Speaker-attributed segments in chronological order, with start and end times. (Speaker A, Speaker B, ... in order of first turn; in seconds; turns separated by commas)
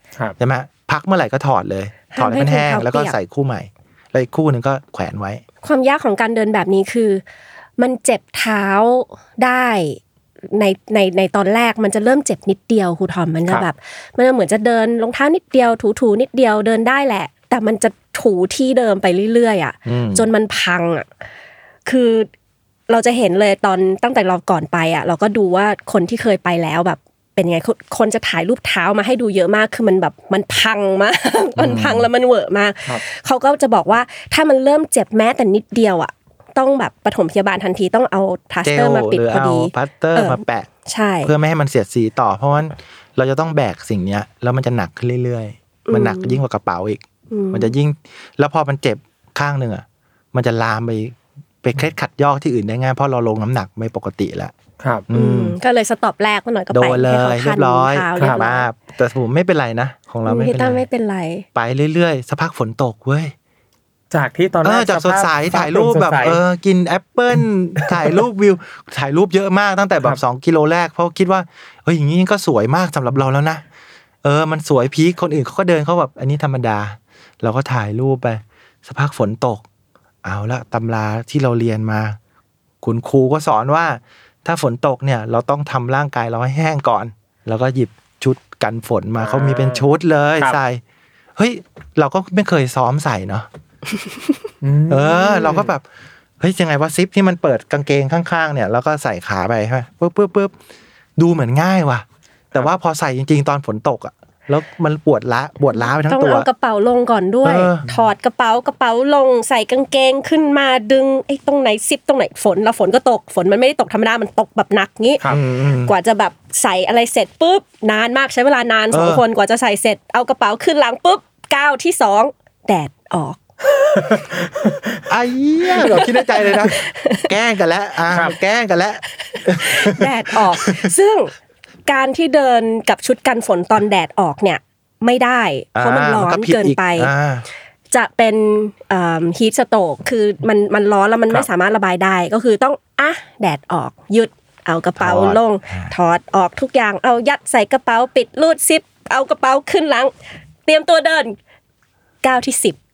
Speaker A: 0.4-5.4, Speaker B: 2.1-3.1, Speaker B: 5.6-7.2, Speaker B: 7.8-10.0, Speaker B: 10.5-21.1, Speaker A: 19.9-20.3, Speaker B: 21.9-22.3, Speaker B: 22.9-41.3, Speaker A: 31.6-32.1, Speaker A: 38.6-40.7, Speaker A: 41.2-54.5, Speaker B: 45.9-46.4, Speaker B: 47.3-47.7, Speaker C: 54.8-55.0, Speaker A: 55.1-55.6, Speaker B: 55.1-58.7, Speaker A: 56.7-60.8, Speaker B: 60.2-61.4, Speaker A: 61.5-63.3, Speaker C: 64.1-66.4, Speaker A: 64.6-73.6, Speaker C: 67.8-68.1, Speaker A: 74.2-79.6, Speaker A: 80.2-82.2, Speaker A: 82.8-90.8, Speaker C: 89.2-89.8, Speaker A: 91.3-93.5, Speaker C: 94.6-95.7, Speaker A: 94.9-95.8, Speaker A: 96.4-100.5, Speaker A: 101.2-106.5, Speaker B: 105.7-115.2, Speaker A: 107.4-107.8, Speaker A: 115.3-115.9, Speaker B: 115.8-123.4, Speaker A: 118.9-119.2, Speaker C: 124.0-125.0, Speaker A: 125.1-130.9, Speaker B: 125.8-127.3, Speaker C: 128.1-128.3, Speaker B: 129.6-131.3, Speaker B: 131.9-137.1, Speaker A: 135.7-137.4, Speaker B: 137.9-150.1, Speaker A: 145.0-145.9, Speaker B: 150.7-151.3, Speaker B: 152.2-152.8